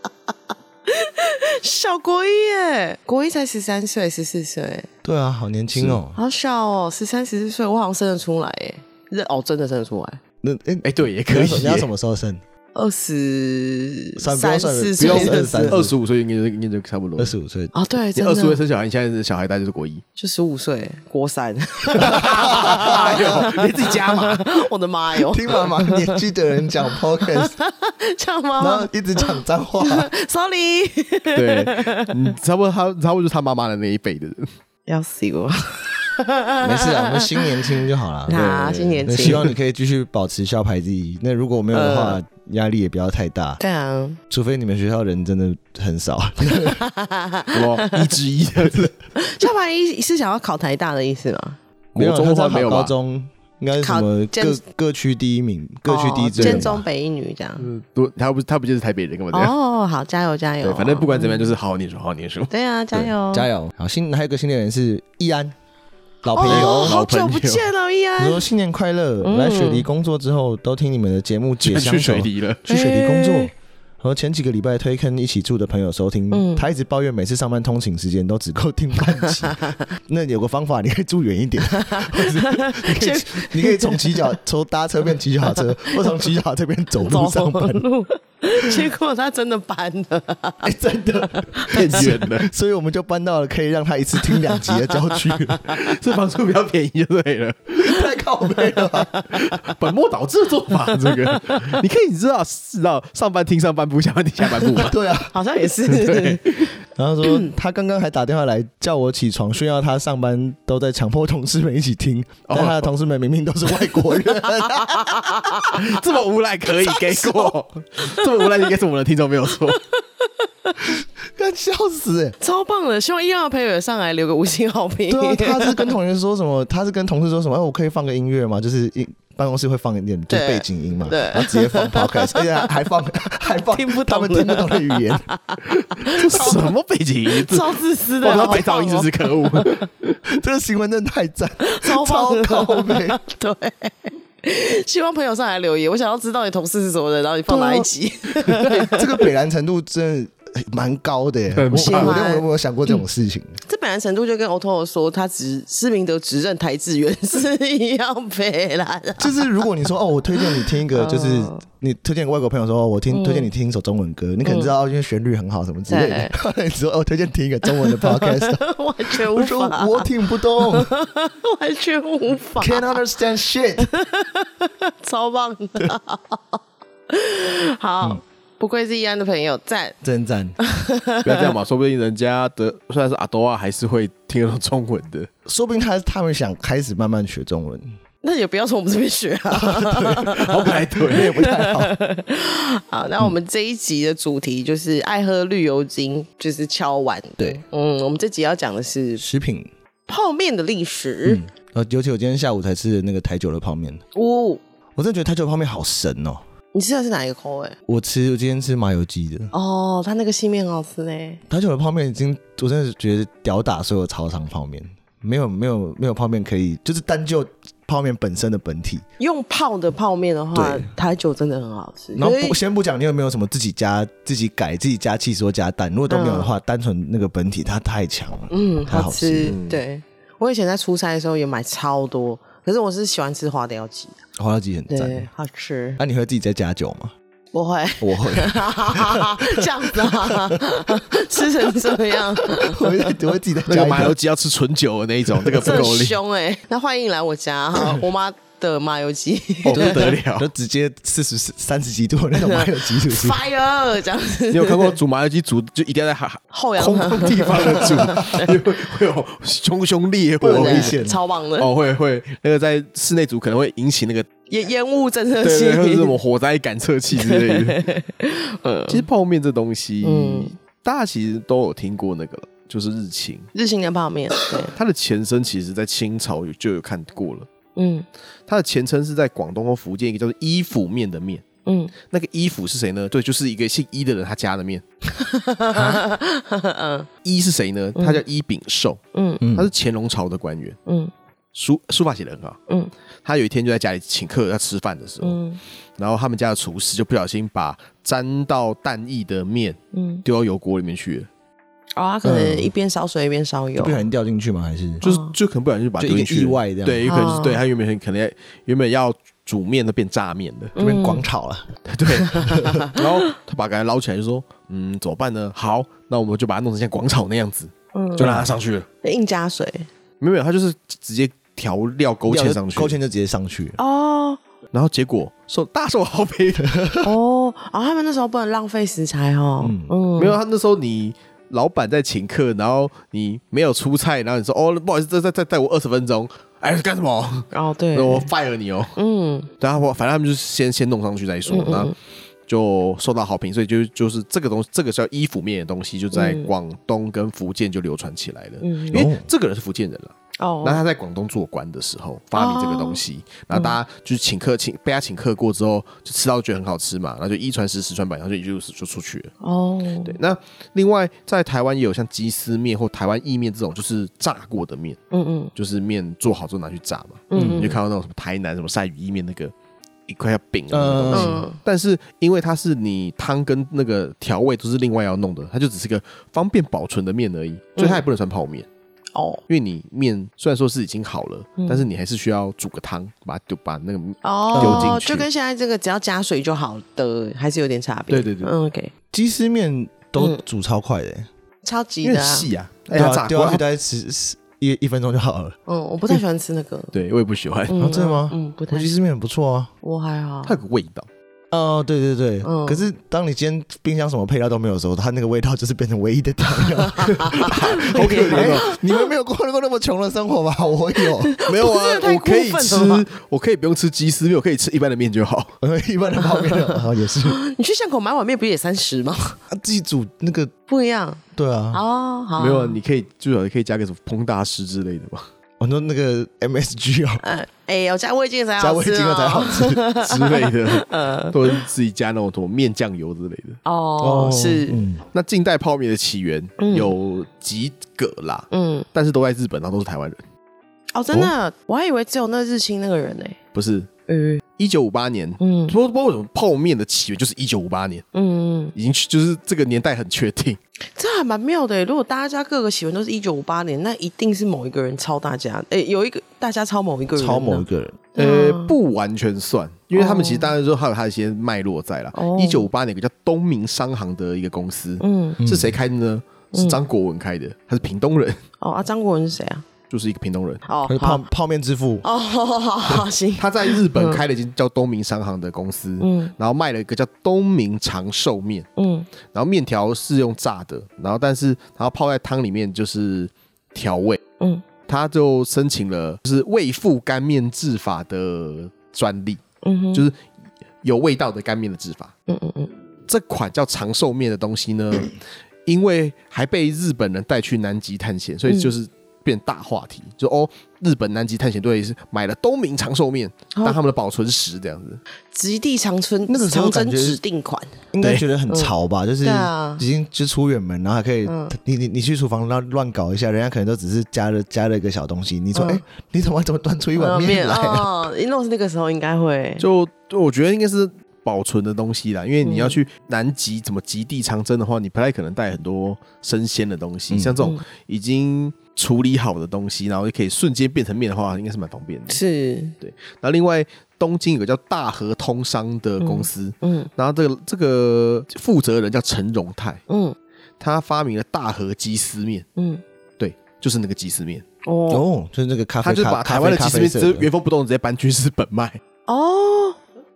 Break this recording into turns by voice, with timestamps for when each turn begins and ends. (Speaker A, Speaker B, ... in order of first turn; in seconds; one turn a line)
Speaker A: 0.9-4.9
Speaker B: 5.0-6.2
Speaker A: 6.1-10.2
Speaker B: 10.4-12.4
Speaker C: 10.8-11.9
Speaker A: 12.7-15.8
Speaker B: 14.2-15.9
Speaker C: 15.0-17.3
Speaker B: 17.2-17.7
Speaker A: 17.7-18.6
Speaker C: 18.1-20.0
Speaker A: 20.2-32.2
Speaker C: 21.9-24.5
Speaker B: 22.0-23.4
Speaker B: 25.2-27.6
Speaker B: 28.6-30.1
Speaker C: 31.3-34.5
Speaker A: 34.9-37.6
Speaker B: 36.6-38.5
Speaker A: 38.3-39.5
Speaker C: 38.3-39.5
Speaker B: 39.0-43.6
Speaker A: 41.7-42.2
Speaker A: 43.6-44.2
Speaker B: 44.3-46.8
Speaker A: 46.5-48.1
Speaker C: 47.5-49.0
Speaker A: 49.1-51.6
Speaker B: 51.9-56.8
Speaker C: 51.9-52.9
Speaker A: 53.8-54.6
Speaker A: 55.9-57.7
Speaker C: 56.4-56.8
Speaker C: 57.6-59.5
Speaker A: 59.3-61.5
Speaker C: 60.6-63.1
Speaker A: 62.5-63.5
Speaker B: 63.3-65.5
Speaker B: 66.2-67.0
Speaker A: 66.3-68.5
Speaker C: 66.5-67.7
Speaker B: 68.2-87.8
Speaker A: 69.2-69.9
Speaker C: 71.6-72.6
Speaker A: 72.7-73.5
Speaker A: 76.3-76.7
Speaker A: 79.2-79.8
Speaker A: 81.7-84.3
Speaker A: 85.4-86.3
Speaker A: 87.0-90.7
Speaker B: 90.6-95.8
Speaker A: 91.4-92.1
Speaker C: 91.7-92.5
Speaker A: 94.2-95.8
Speaker C: 95.7-97.9
Speaker B: 97.8-99.1
Speaker A: 98.7-99.7
Speaker C: 99.3-104.9
Speaker A: 101.0-101.8
Speaker B: 104.8-105.3
Speaker A: 105.3-107.5
Speaker C: 105.8-106.7
Speaker B: 107.0-115.6
Speaker C: 112.5-112.9
Speaker A: 114.1-116.0
Speaker C: 115.6-119.8
Speaker A: 116.7-118.7
Speaker A: 119.7-120.9
Speaker B: 121.3-122.3
Speaker A: 122.4-125.9
Speaker B: 125.1-135.2
Speaker A: 130.3-132.7
Speaker A: 133.7-136.7
Speaker C: 135.9-140.2
Speaker A: 137.3-139.7
Speaker B: 140.3-143.2
Speaker A: 141.6-149.3
Speaker B: 147.5-147.8
Speaker B: 148.6-153.6
Speaker C: 151.5-152.2
Speaker A: 151.7-153.0
Speaker A: 153.7-159.7
Speaker B: 159.2-170.9
Speaker A: 160.4-161.6
Speaker A: 163.1-163.5
Speaker A: 164.4-164.7
Speaker A: 165.9-166.3
Speaker A: 167.7-173.0
Speaker B: 172.6-173.9
Speaker A: 173.8-180.0
Speaker B: 180.0-180.6
Speaker A: 180.6-181.5
Speaker C: 181.2-185.3
Speaker B: 185.4-187.9
Speaker A: 188.2-199.2
Speaker B: 189.5-191.9
Speaker C: 190.3-191.4
Speaker B: 199.2-199.7
Speaker A: 200.1-201.4
Speaker B: 201.2-204.0
Speaker A: 204.1-204.6
Speaker B: 204.9-206.4
Speaker A: 206.7-207.8
Speaker B: 207.9-209.5
Speaker A: 209.5-211.4
Speaker B: 211.5-219.0
Speaker A: 219.2-222.6
Speaker B: 220.5-220.9
Speaker B: 222.2-229.6
Speaker A: 226.1-226.5
Speaker A: 228.5-234.2
Speaker C: 229.4-229.8
Speaker B: 234.4-235.3
Speaker A: 234.9-236.0
Speaker B: 236.0-237.1
Speaker A: 237.5-243.2
Speaker B: 238.0-241.0
Speaker B: 241.7-244.2
Speaker C: 243.7-246.2
Speaker B: 245.3-245.8
Speaker A: 245.6-250.2
Speaker B: 249.6-253.4
Speaker C: 249.7-250.5
Speaker A: 252.4-254.9
Speaker C: 254.5-261.0
Speaker A: 256.5-258.6
Speaker B: 257.7-258.4
Speaker B: 260.4-261.2
Speaker A: 260.4-261.7
Speaker C: 261.6-264.3
Speaker A: 264.5-266.1
Speaker C: 265.4-267.8
Speaker A: 267.1-269.1
Speaker C: 268.9-273.5
Speaker A: 270.0-270.5
Speaker A: 273.5-274.7
Speaker C: 274.7-277.5
Speaker A: 277.8-278.1
Speaker C: 278.5-281.4
Speaker A: 281.6-281.9
Speaker C: 282.1-284.8
Speaker A: 285.1-287.1
Speaker C: 287.2-289.0
Speaker A: 287.9-288.2
Speaker A: 289.1-289.4
Speaker B: 289.4-289.7
Speaker C: 289.5-290.8
Speaker A: 290.9-291.1
Speaker C: 291.5-292.6
Speaker C: 293.2-295.4
Speaker A: 295.2-295.6
Speaker C: 296.0-301.3
Speaker A: 299.9-300.2
Speaker A: 301.9-304.0
Speaker B: 302.2-302.7
Speaker B: 303.8-305.0
Speaker A: 305.0-305.3
Speaker C: 305.0-310.8
Speaker B: 306.0-307.2
Speaker A: 307.1-307.6
Speaker A: 310.8-311.2
Speaker B: 310.8-311.7
Speaker C: 311.9-318.9
Speaker A: 312.3-313.0
Speaker A: 317.9-318.3
Speaker B: 318.2-318.5
Speaker A: 319.0-319.9
Speaker C: 320.2-322.9
Speaker B: 322.3-323.8
Speaker A: 323.8-324.4
Speaker C: 324.7-326.9
Speaker B: 326.6-327.1
Speaker A: 327.0-330.4
Speaker B: 329.6-329.9
Speaker C: 330.2-339.0
Speaker A: 337.5-338.3
Speaker A: 338.9-339.5
Speaker C: 339.6-341.9
Speaker A: 341.5-341.9
Speaker C: 342.5-359.3
Speaker A: 346.1-346.5
Speaker A: 348.6-349.1
Speaker B: 348.9-349.2
Speaker A: 350.4-350.8
Speaker A: 352.3-353.0
Speaker A: 353.5-353.8
Speaker A: 359.4-360.2
Speaker C: 360.0-365.0
Speaker A: 365.1-365.5
Speaker C: 365.6-369.5
Speaker A: 367.3-367.8
Speaker B: 367.3-367.8
Speaker C: 370.1-378.7
Speaker B: 370.7-371.4
Speaker A: 371.1-371.6
Speaker A: 377.8-378.0
Speaker A: 379.1-379.4
Speaker C: 379.5-385.2
Speaker A: 381.6-381.8
Speaker A: 384.2-388.9
Speaker B: 384.5-385.0
Speaker C: 388.1-388.5
Speaker B: 389.1-391.3
Speaker A: 391.6-392.5
Speaker C: 392.0-393.6
Speaker B: 392.9-395.6
Speaker A: 395.7-396.9
Speaker C: 396.9-397.8
Speaker A: 397.7-398.9
Speaker B: 397.8-399.7
Speaker A: 399.8-400.6
Speaker C: 400.4-401.1
Speaker B: 401.5-411.3
Speaker A: 402.4-402.9
Speaker A: 406.5-409.1
Speaker C: 407.1-408.6
Speaker A: 410.9-413.1
Speaker C: 411.4-415.5
Speaker B: 415.6-417.4
Speaker A: 416.3-419.4
Speaker B: 419.5-420.5
Speaker A: 420.7-421.2
Speaker B: 421.3-421.8
Speaker A: 421.7-422.8
Speaker C: 422.4-425.3
Speaker B: 425.6-427.2
Speaker A: 427.2-431.6
Speaker B: 428.6-429.8
Speaker C: 430.0-433.6
Speaker A: 433.6-434.8
Speaker B: 434.0-435.0
Speaker C: 435.1-440.2
Speaker A: 436.6-436.9
Speaker A: 438.5-438.9
Speaker A: 440.9-443.4
Speaker C: 443.5-443.9
Speaker A: 444.1-444.4
Speaker C: 444.6-448.1
Speaker A: 445.4-445.8
Speaker A: 448.1-448.7
Speaker C: 448.7-450.6
Speaker A: 450.9-458.7
Speaker B: 457.1-458.0
Speaker C: 458.2-468.4
Speaker A: 459.9-460.5
Speaker A: 462.1-462.7
Speaker A: 465.0-465.4
Speaker B: 465.4-465.8
Speaker A: 466.5-466.8
Speaker A: 468.6-469.6
Speaker C: 469.9-470.6
Speaker A: 470.6-471.2
Speaker B: 470.9-472.1
Speaker A: 472.0-474.2
Speaker C: 473.4-478.7
Speaker A: 476.0-476.3
Speaker A: 478.8-479.1
Speaker C: 479.3-484.2
Speaker C: 484.9-489.4
Speaker A: 489.6-490.1
Speaker C: 490.8-492.1
Speaker A: 492.3-492.7
Speaker C: 493.1-505.0
Speaker A: 498.5-498.7
Speaker A: 503.5-503.8
Speaker A: 505.3-507.8
Speaker B: 506.3-507.2
Speaker B: 507.9-518.0
Speaker C: 508.0-508.3
Speaker A: 508.5-509.8
Speaker A: 511.2-511.5
Speaker A: 515.5-515.8
Speaker A: 517.0-519.6
Speaker C: 519.6-532.2
Speaker A: 522.4-522.8
Speaker B: 527.1-527.4
Speaker A: 532.1-532.7
Speaker C: 532.8-539.8
Speaker A: 536.0-536.9
Speaker A: 539.9-540.1
Speaker C: 540.6-542.5
Speaker A: 542.6-542.8
Speaker C: 543.2-544.4
Speaker A: 544.6-545.0
Speaker B: 544.9-547.3
Speaker C: 545.8-548.8
Speaker A: 549.1-549.8